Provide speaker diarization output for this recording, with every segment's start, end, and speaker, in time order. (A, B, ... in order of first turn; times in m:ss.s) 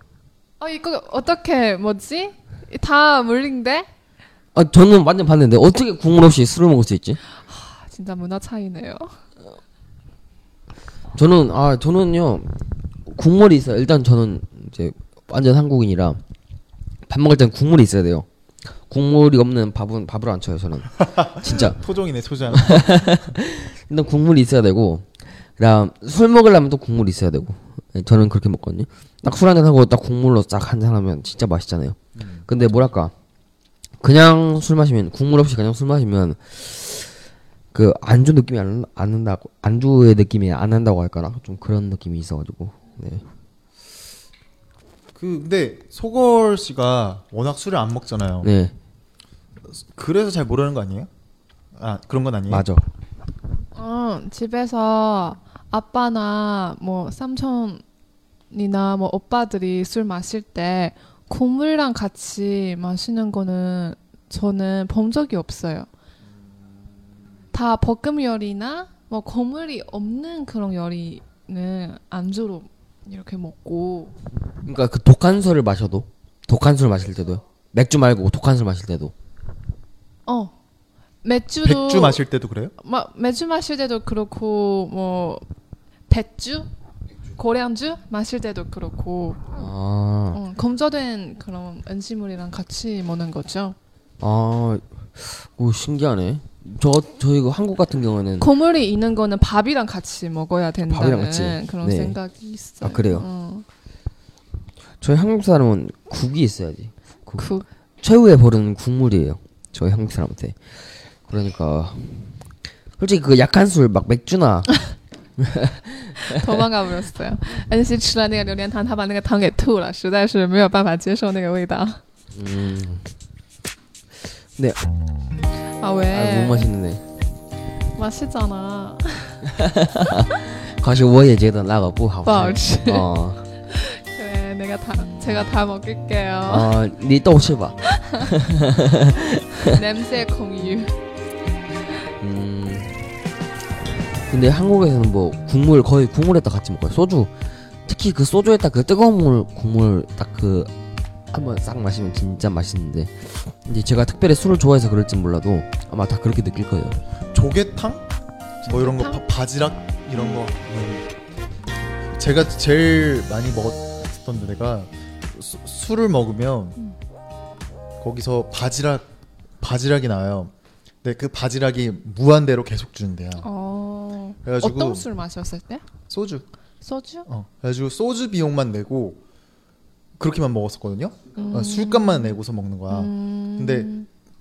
0:00.6-0:03.9 A
0:04.6-0:07.2 B
0:07.4-0:09.1 A
0:11.1-0:12.5 B
0:13.1-0:16.2 B
0:17.1-0:18.3 B
0:18.9-0:21.8 B
0:21.1-0:23.2 C
0:22.5-0:32.0 B
0:32.2-0:32.4 C
0:32.5-0:33.1 B
0:34.0-0:37.1 B
0:37.7-0:43.2 B
0:45.2-0:48.5 C
0:48.4-0:48.8 B
0:49.7-0:51.1 C
0:51.8-0:52.7 C
0:52.5-0:52.8 B
0:53.8-0:57.8 A
0:58.5-1:05.9 A
1:07.5-1:14.2 A
1:14.6-1:19.1 B
1:20.3-1:20.5 A
1:21.2-1:22.2 A
1:21.6-1:22.7 C
1:22.8-1:25.4 A
1:26.1-1:26.7 A
1:27.4-1:29.7 A
1:29.6-1:30.4 B
1:30.3-1:33.8 A
1:34.2-1:38.5 B
1:38.4-1:43.7 A
1:40.9-1:42.2 B
1:42.8-1:43.3 B
1:45.0-1:52.5 B
1:47.4-1:47.7 A
1:53.0-1:56.4 B
1:56.3-2:02.0 A
2:02.4-2:03.1 B
2:04.6-2:04.9 B
2:05.8-2:06.7 A
2:06.1-2:07.0 B
2:08.0-2:09.4 A
2:09.5-2:13.5 B
2:12.2-2:13.1 A
2:13.6-2:16.7 A
2:16.5-2:19.6 B
2:17.9-2:18.2 A
2:19.7-2:21.0 A
2:22.2-2:22.9 B
2:24.3-2:27.3 B
2:27.9-2:30.7 B
2:31.3-2:37.0 B
2:37.3-2:38.0 C
2:38.6-2:41.1 C
2:38.7-2:39.2 A
2:40.2-2:40.4 A
2:42.2-2:46.8 C
2:48.0-2:49.1 C
2:49.6-2:53.5 C
2:53.4-2:55.9 A
2:54.4-2:55.1 C
2:56.1-2:56.5 C
2:56.8-2:57.3 A
2:57.3-2:59.2 C
3:00.2-3:03.9 C
3:01.4-3:04.1 A